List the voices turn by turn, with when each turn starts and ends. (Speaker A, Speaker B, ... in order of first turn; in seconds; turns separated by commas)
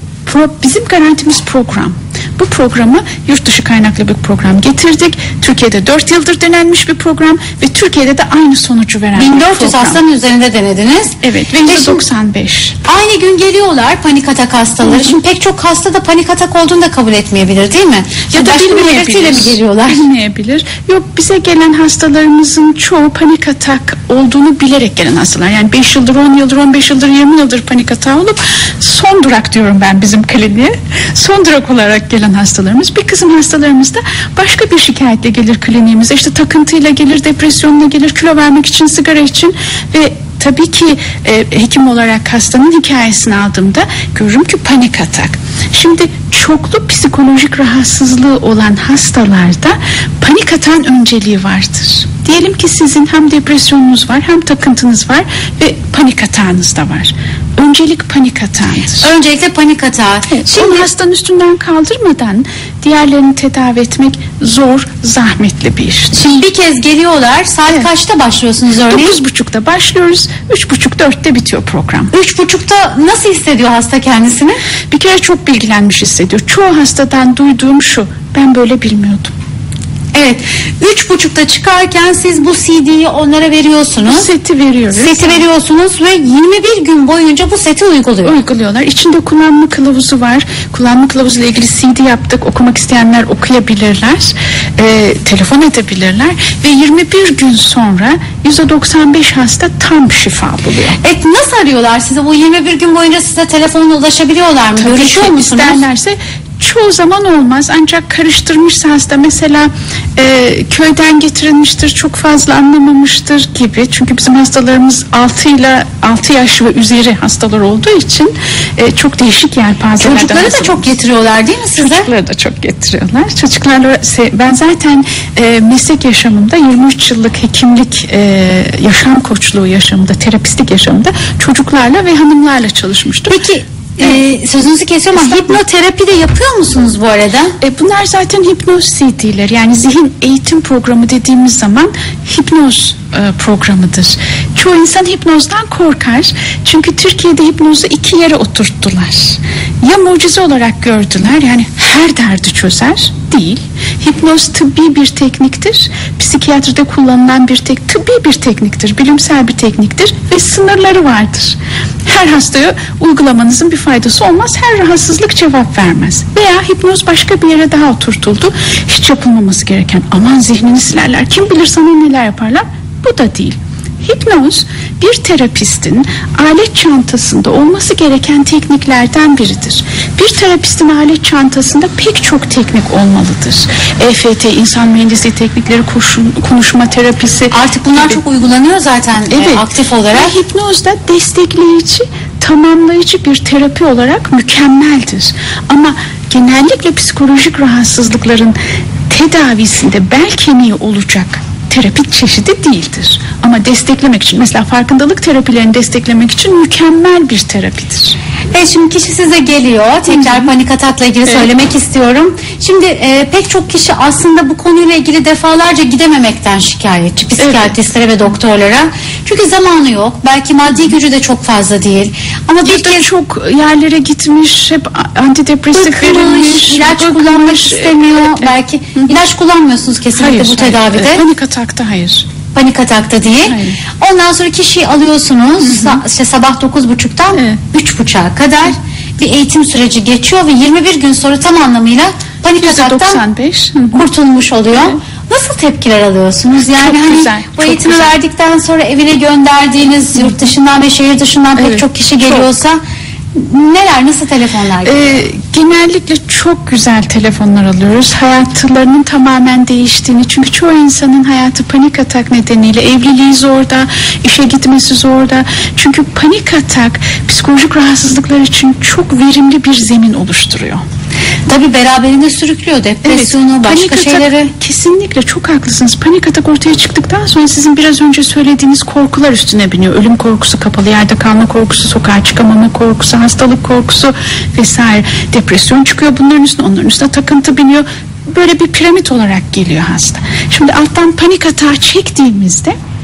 Speaker A: 0.3-10.0, Speaker B: 9.2-12.0, Speaker A: 11.2-12.8, Speaker B: 12.9-20.1, Speaker A: 14.8-15.2, Speaker A: 18.3-59.1, Speaker B: 59.0-60.9, Speaker A: 60.3-66.3, Speaker B: 66.1-69.2, Speaker A: 68.9-72.1, Speaker B: 72.1-74.6, Speaker A: 74.9-79.3, Speaker B: 80.1-84.3, Speaker A: 84.0-85.5, Speaker B: 84.9-88.3, Speaker A: 88.2-101.0, Speaker B: 101.0-105.8, Speaker A: 104.8-120.9, Speaker B: 120.0-122.1, Speaker A: 121.8-133.4, Speaker B: 133.3-137.6, Speaker A: 135.2-135.6, Speaker A: 137.6-188.2, Speaker B: 187.5-190.3, Speaker A: 189.3-198.6, Speaker A: 199.1-208.2, Speaker B: 208.5-223.1, Speaker A: 210.1-210.5, Speaker A: 217.4-217.8, Speaker A: 222.6-229.2, Speaker B: 225.7-231.2, Speaker A: 230.2-232.3, Speaker B: 232.5-243.2, Speaker A: 233.5-233.8, Speaker A: 235.6-236.0, Speaker A: 237.3-237.6, Speaker A: 242.5-244.1, Speaker B: 243.9-252.8, Speaker A: 246.7-248.2, Speaker A: 250.2-250.5, Speaker A: 251.6-252.5, Speaker B: 253.3-255.0, Speaker A: 254.8-270.8, Speaker B: 271.5-274.5, Speaker A: 273.0-292.8